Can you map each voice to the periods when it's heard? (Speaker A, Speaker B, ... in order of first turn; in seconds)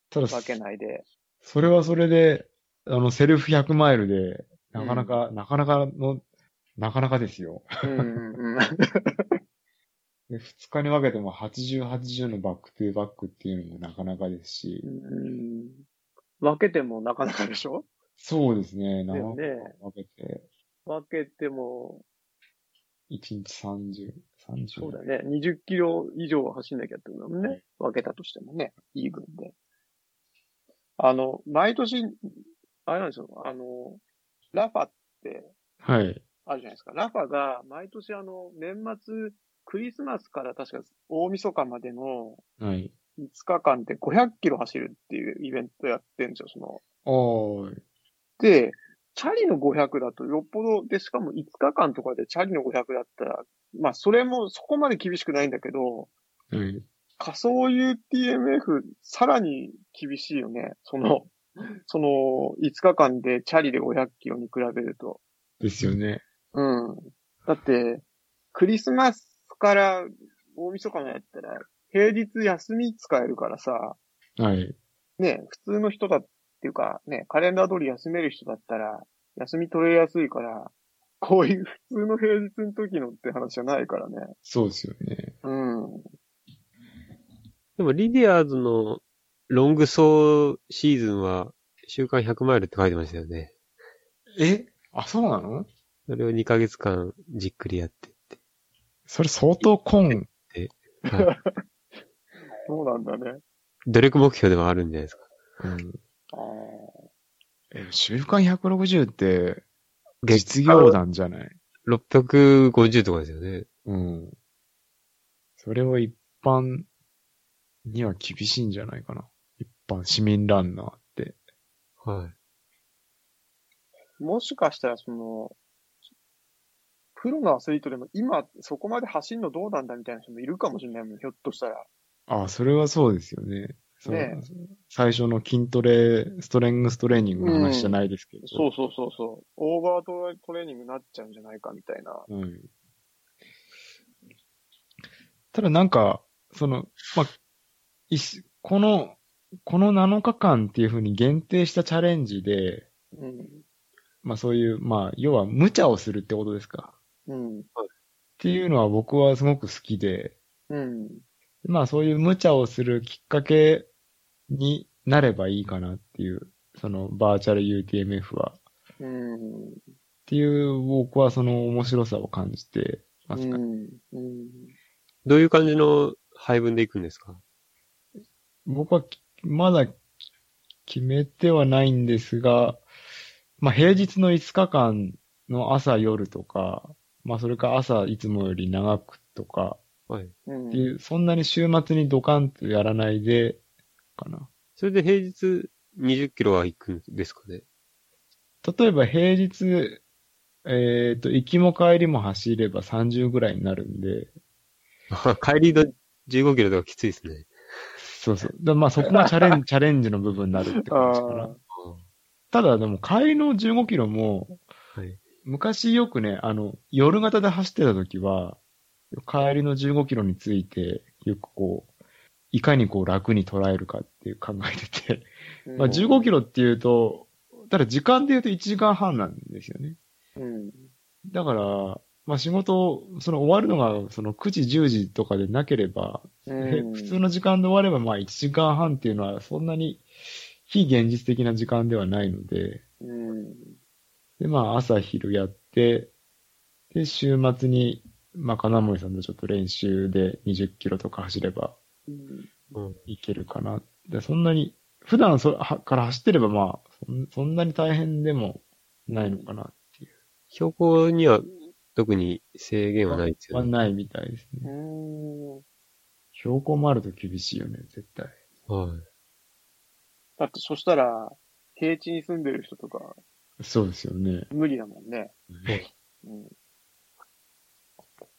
Speaker A: 0.1-0.6, 1.4-6.2, 6.8-8.1, 10.3-14.8, 18.2-20.4, 23.1-25.0, 35.8-36.2, 42.6-42.9, 47.0-47.8, 56.5-56.8, 65.6-66.2, 74.4-74.8, 84.4-85.3, 94.3-95.7, 99.1-100.3, 105.6-106.0, 107.7-109.6, 110.2-111.5, 113.8-114.3, 115.6-116.9, 117.8-121.4, 132.3-138.7, 142.3-142.7, 145.5-147.3, 148.1-152.9, 154.2-156.9, 158.4-160.3, 161.6-163.9, 164.5-168.6, 170.3-173.6, 178.7-180.0, 180.9-182.8, 183.6-189.8, 190.7-193.6, 194.2-194.5, 198.6-200.0, 200.7-204.3, 208.0-211.5, 212.5-214.6, 215.4-218.6, 219.1-221.9, 222.5-230.0, 231.2-240.0, 240.7-242.8, 244.4-246.1, 246.9-251.8, 253.1-260.0, 263.1-264.7, 266.3-268.3, 273.6-274.5
Speaker B: 0.3-1.0, 4.8-5.2, 7.8-9.3, 14.8-15.8, 16.4-17.9, 19.1-19.8, 20.9-22.0, 24.8-29.5, 31.0-32.1, 32.9-34.0, 34.5-35.5, 36.5-42.4, 43.2-46.8, 48.4-56.1, 57.2-65.2, 66.5-74.0, 75.2-84.3, 85.4-86.1, 101.1-101.6, 102.7-103.4, 106.3-107.0, 124.2-125.5, 127.2-131.8, 134.0-134.4, 137.4-142.3, 153.1-153.6, 157.3-157.7, 160.7-161.2, 169.0-169.8, 173.3-174.7, 190.5-190.9, 210.9-211.6, 225.7-226.3, 230.4-230.9, 236.5-237.2, 243.0-243.7, 252.1-252.6, 259.1-259.5, 264.6-265.6, 270.4-273.1, 274.5-275.3, 276.2-276.5
Speaker C: 87.8-93.5, 96.1-98.3, 100.1-101.3, 103.8-105.3, 110.2-110.9, 111.8-113.7, 122.0-122.3, 175.2-177.4, 190.1-190.3, 194.8-197.6, 205.1-207.5, 211.7-212.0, 260.5-263.7, 268.7-269.0